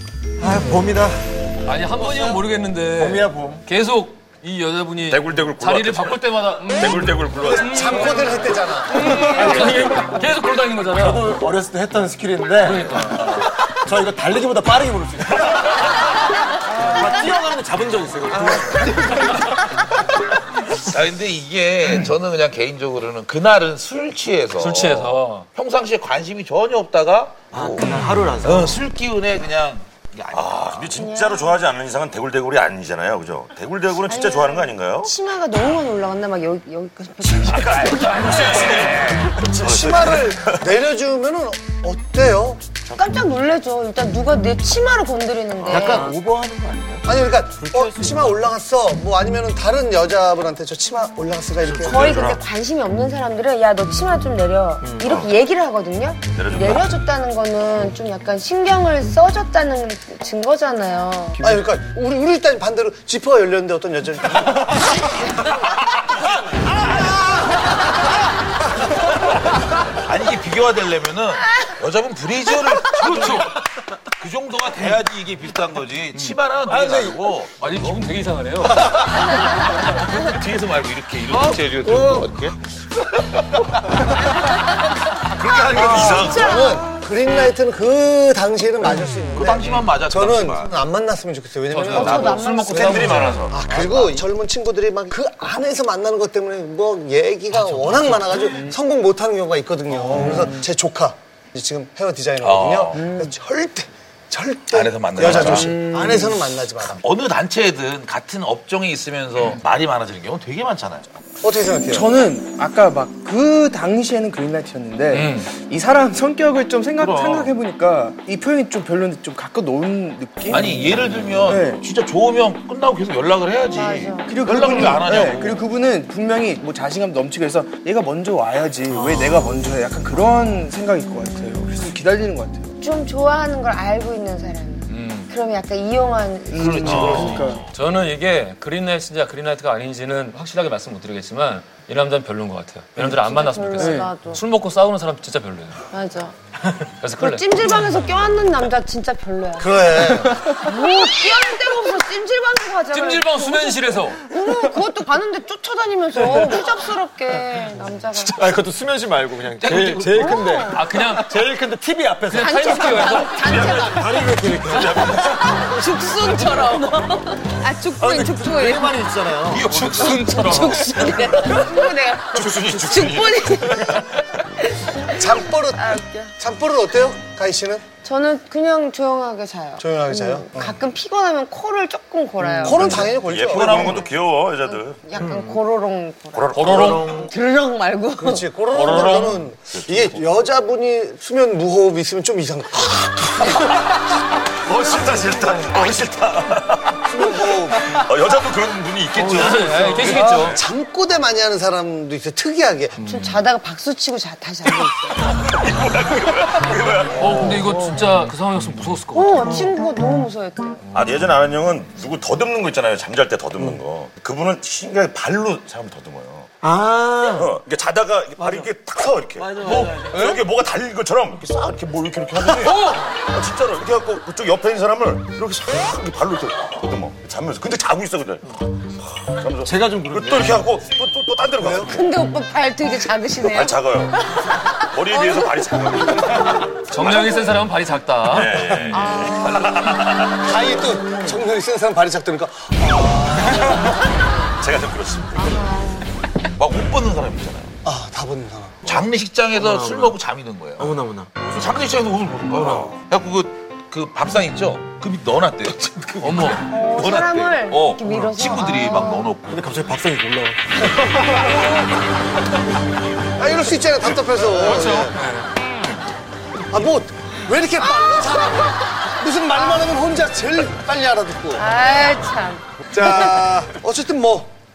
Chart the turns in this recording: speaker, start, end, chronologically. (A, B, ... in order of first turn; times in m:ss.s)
0:00.6-0:01.1 A
0:00.7-0:01.0 B
0:01.6-0:08.3 C
0:03.0-0:03.6 B
0:05.1-0:06.2 B
0:06.7-0:07.4 B
0:06.8-0:07.6 D
0:07.4-0:09.5 A
0:09.0-0:11.4 C
0:11.0-0:15.4 B
0:12.6-0:13.6 C
0:16.9-0:19.1 B
0:20.8-0:31.0 E
0:24.5-0:25.4 C
0:27.5-0:28.8 B
0:30.4-0:35.1 D
0:31.0-0:31.6 F
0:31.0-0:31.8 B
0:33.4-0:35.1 B
0:34.1-0:38.6 F
0:37.7-0:39.2 E
0:39.2-0:40.4 B
0:39.3-0:42.6 A
0:42.9-0:46.2 F
0:45.6-0:47.0 B
0:47.0-0:52.1 A
0:51.7-0:52.4 B
0:51.9-1:01.4 F
0:52.0-0:52.4 D
0:55.0-0:55.3 D
0:56.4-0:56.9 B
0:56.4-0:56.9 D
1:01.4-1:06.3 A
1:07.0-1:07.3 A
1:10.0-1:13.6 E
1:13.0-1:13.5 C
1:14.2-1:18.2 E
1:17.6-1:19.8 C
1:18.7-1:22.6 E
1:25.4-1:47.0 A
1:25.6-1:26.7 D
1:25.7-1:26.4 B
1:26.2-1:26.6 F
1:29.4-1:30.7 E
1:31.7-1:33.4 C
1:31.8-1:33.6 E
1:31.9-1:33.0 F
1:32.9-1:33.6 B
1:42.4-1:43.0 E
1:43.0-1:43.3 G
1:44.7-1:45.8 E
1:46.8-1:51.1 E
1:51.4-1:52.1 A
1:51.9-2:01.8 G
1:55.1-1:55.5 C
1:57.0-1:57.6 E
2:00.5-2:05.7 E
2:03.7-2:04.3 F
2:04.3-2:12.7 G
2:09.0-2:09.4 C
2:12.8-2:17.5 F
2:14.9-2:15.3 C
2:16.5-2:17.6 G
2:16.5-2:17.7 E
2:17.7-2:25.9 C
2:23.0-2:24.4 F
2:23.8-2:24.1 G
2:25.9-2:26.4 F
2:26.8-2:27.7 C
2:27.2-2:38.5 F
2:29.6-2:30.5 A
2:32.9-2:34.3 C
2:38.3-2:45.6 B
2:39.4-2:40.6 E
2:40.0-2:40.8 F
2:40.2-2:41.5 C
2:42.3-2:43.4 C
2:42.3-2:49.3 F
2:44.7-2:45.3 D
2:48.0-2:50.2 B
2:49.4-2:51.1 E
2:50.2-2:56.4 F
2:52.3-2:53.5 D
2:52.5-2:54.0 B
2:55.1-2:57.8 A
2:58.0-3:03.1 F
2:59.8-3:00.8 A
3:02.6-3:04.0 A
3:02.9-3:05.0 D
3:03.0-3:05.0 B
3:03.8-3:06.6 F
3:06.3-3:07.2 B
3:06.5-3:07.2 D
3:06.5-3:07.3 C
3:07.3-3:08.6 F
3:08.2-3:13.7 A
3:08.7-3:09.5 C
3:14.7-3:16.8 D
3:14.8-3:16.1 B
3:17.0-3:17.9 A
3:17.9-3:20.2 B
3:18.6-3:19.7 D
3:19.3-3:20.6 C
3:20.0-3:23.0 A
3:23.0-3:25.3 F
3:25.5-3:27.6 B
3:26.2-3:27.1 D
3:27.2-3:29.7 C
3:29.1-3:30.9 F
3:30.9-3:32.0 B
3:31.0-3:36.4 D
3:36.6-3:37.8 B
3:37.4-3:48.4 D
3:38.3-3:40.4 B
3:42.4-3:42.8 B
3:49.2-3:51.9 D
3:49.5-3:51.0 B
3:51.6-3:51.9 A
3:51.9-3:53.9 F
3:53.4-3:54.0 D
3:54.6-3:55.5 F
3:54.8-3:56.6 B
3:55.0-3:56.5 D
3:56.8-3:58.9 C
3:58.4-3:59.8 B
3:58.6-4:00.3 D
3:58.9-3:59.9 F
4:00.4-4:04.0 A
4:04.6-4:05.5 D
4:05.4-4:06.1 F
4:06.6-4:07.7 E
4:07.8-4:08.9 A
4:08.8-4:19.9 E
4:09.7-4:10.1 B
4:10.8-4:11.3 B
4:16.2-4:16.6 C
4:16.7-4:19.3 F
4:19.5-4:20.6 B
4:23.4-4:25.2 A
4:24.6-4:25.5 C
4:26.7-4:31.7 A
4:28.0-4:28.7 F
4:31.5-4:33.2 F
4:32.9-4:34.5 A